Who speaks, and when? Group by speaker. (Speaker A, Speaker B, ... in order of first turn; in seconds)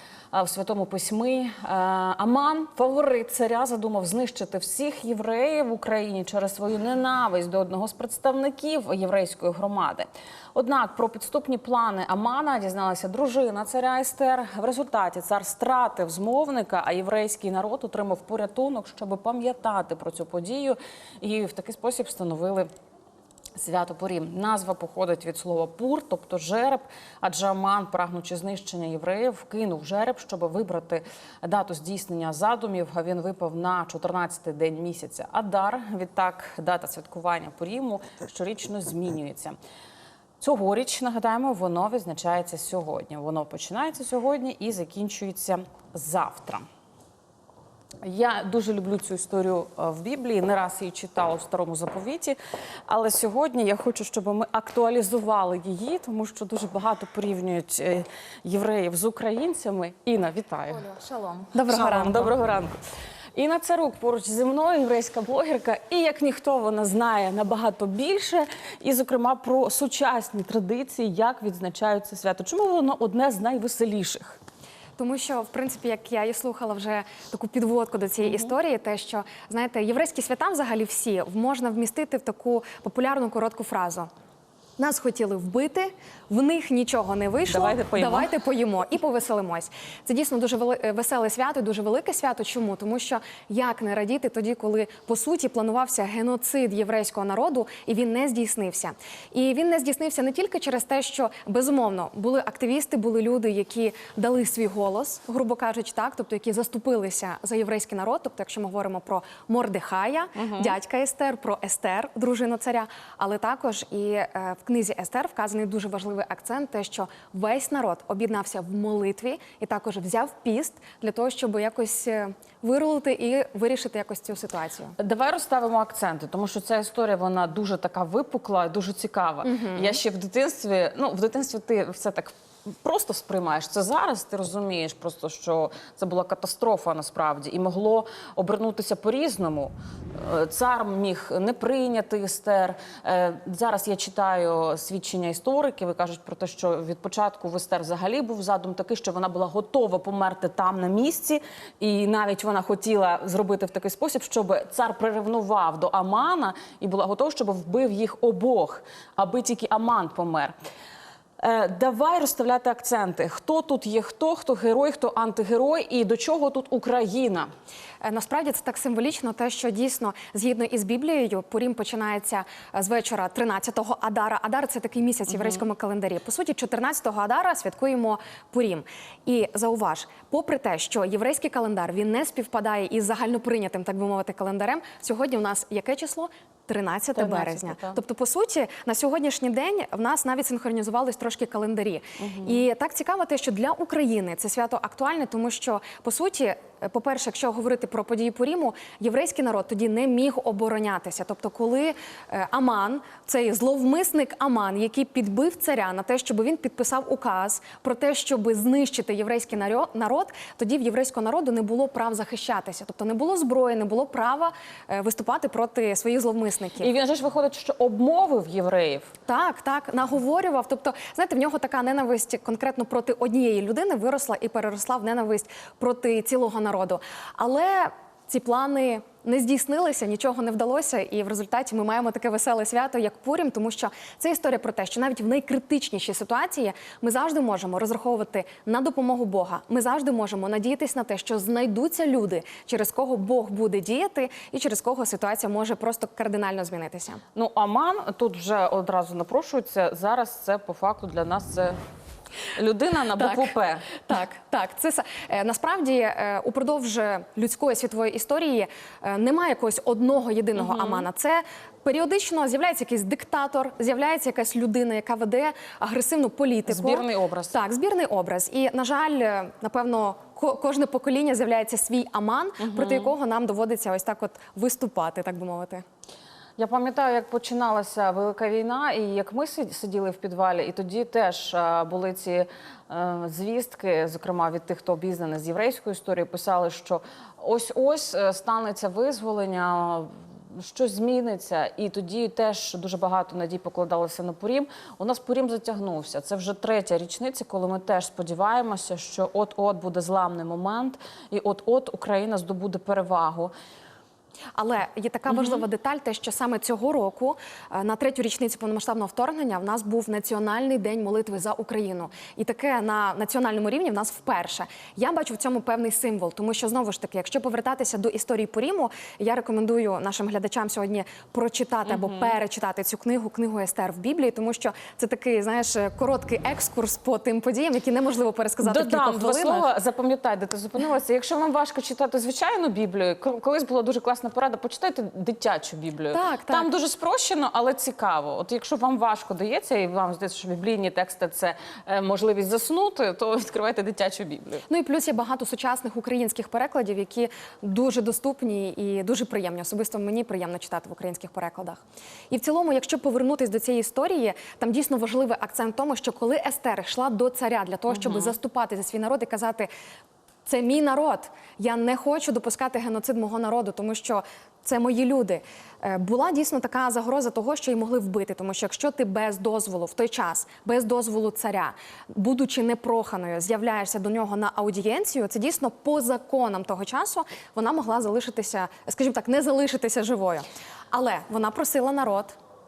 Speaker A: 0.3-22.7, 23.6-39.5, 40.4-46.6, 48.0-52.4, 52.9-60.9, 61.6-62.8, 63.4-74.4, 78.2-78.5, 87.5-88.3, 110.3-110.7, 125.0-160.5, 161.4-167.5, 187.1-188.0, 192.2-192.6, 216.8-219.1, 247.3-251.8, 252.5-253.9, 260.6-261.1, 266.6-267.6, 272.6-273.1, 276.6-303.5, 305.3-305.6, 321.9-322.3, 328.6-344.6, 357.9-358.4
Speaker B: 60.8-62.3, 75.0-84.1, 84.8-125.0, 129.4-130.0, 168.0-216.9, 219.3-247.2, 253.2-275.8, 304.6-329.7, 336.1-336.7, 344.7-351.8, 352.3-359.7, 360.4-382.4